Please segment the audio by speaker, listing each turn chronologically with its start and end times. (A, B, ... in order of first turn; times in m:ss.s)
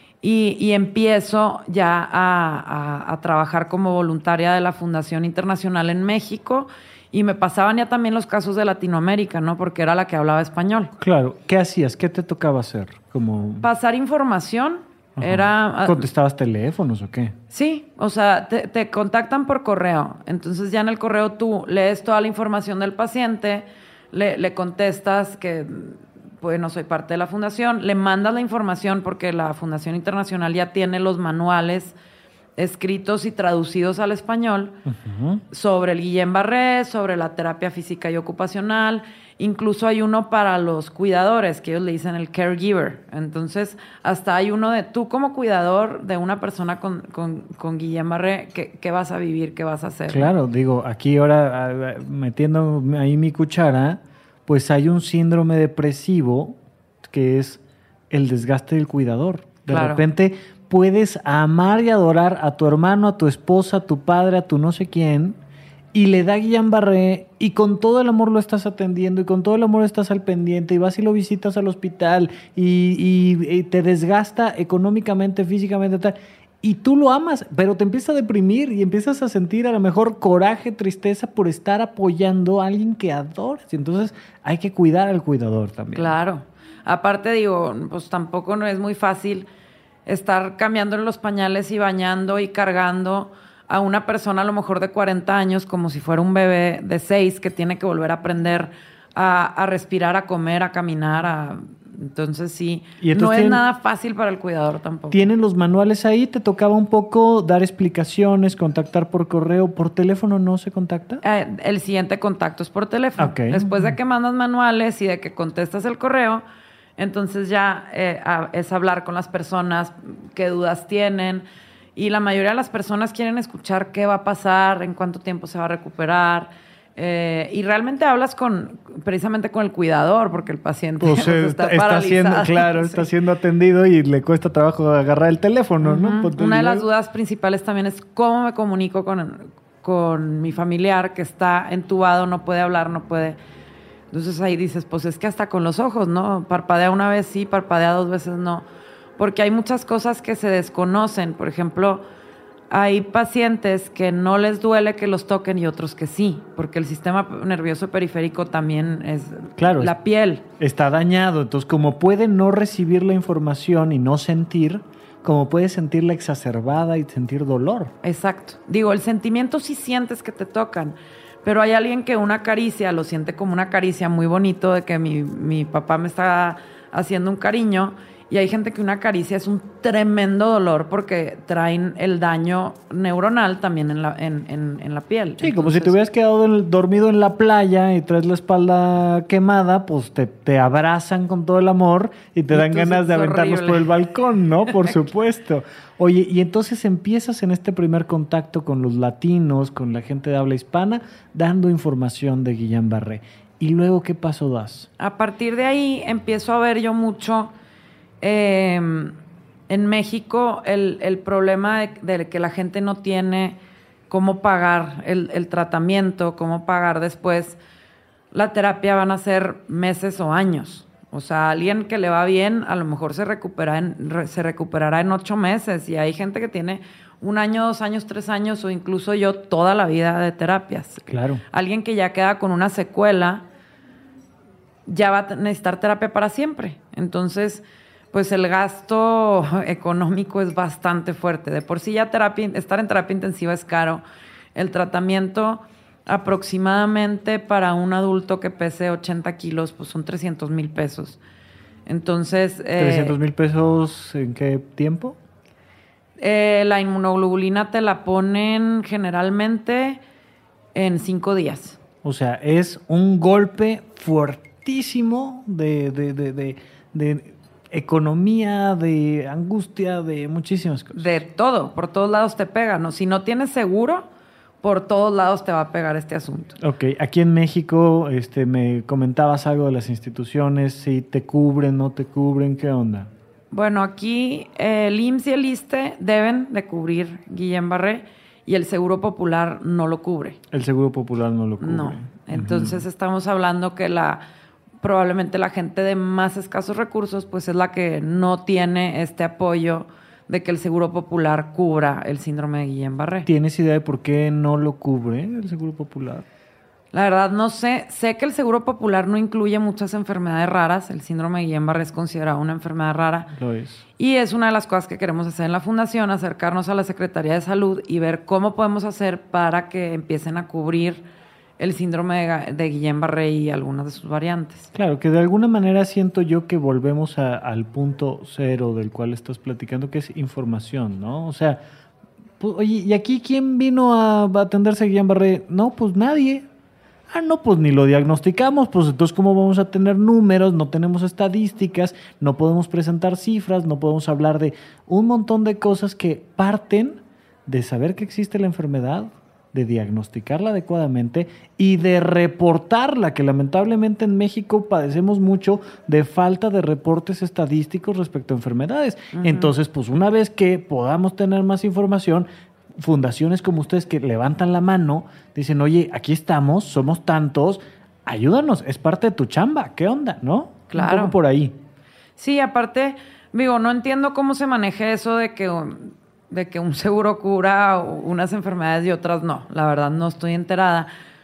0:00.2-0:10.9 A
0:11.0-0:13.7 B
0:13.6-0:16.1 A
0:15.2-0:17.4 B
0:17.5-0:32.0 A
0:32.6-0:34.8 A
0:34.8-0:35.4 B
0:35.5-0:50.3 A
0:50.1-1:05.4 B
0:59.7-1:00.0 A
1:05.9-1:26.1 B
1:25.9-1:29.5 A
1:30.0-1:45.3 A
1:43.0-1:43.6 B
1:45.1-1:51.2 B
1:51.2-1:56.4 A
1:53.2-1:53.9 B
1:57.0-2:13.1 A
2:11.0-2:16.9 B
2:15.8-2:23.4 A
2:24.1-2:28.6 A
2:29.2-2:32.0 A
2:32.7-2:40.4 A
2:39.6-2:39.9 B
2:40.6-2:47.9 B
2:48.0-3:06.0 A
3:05.4-3:24.9 B
3:12.5-3:13.9 A
3:25.0-3:27.5 A
3:28.2-3:29.2 A
3:29.7-3:37.6 A
3:38.3-3:53.4 A
3:51.1-3:51.4 B
3:54.9-4:04.0 A
4:04.5-4:11.2 A
4:11.9-4:13.2 A
4:12.8-4:15.2 B
4:16.2-4:20.0 A
4:20.7-4:21.8 A
4:22.0-4:31.1 B
4:30.9-4:34.1 A
4:34.6-4:36.6 A
4:36.6-4:43.1 B
4:43.5-4:50.4 A
4:50.5-4:52.8 B
4:51.6-4:54.2 A
4:54.8-5:03.3 A
5:03.2-5:06.2 B
5:06.9-5:13.3 A
5:13.3-5:13.8 B
5:14.0-5:21.0 A
5:21.6-5:24.7 A
5:24.7-5:31.6 B
5:32.4-5:36.5 B
5:37.1-6:11.6 B
5:59.1-5:59.5 A
6:10.7-6:11.1 A
6:12.2-6:20.9 A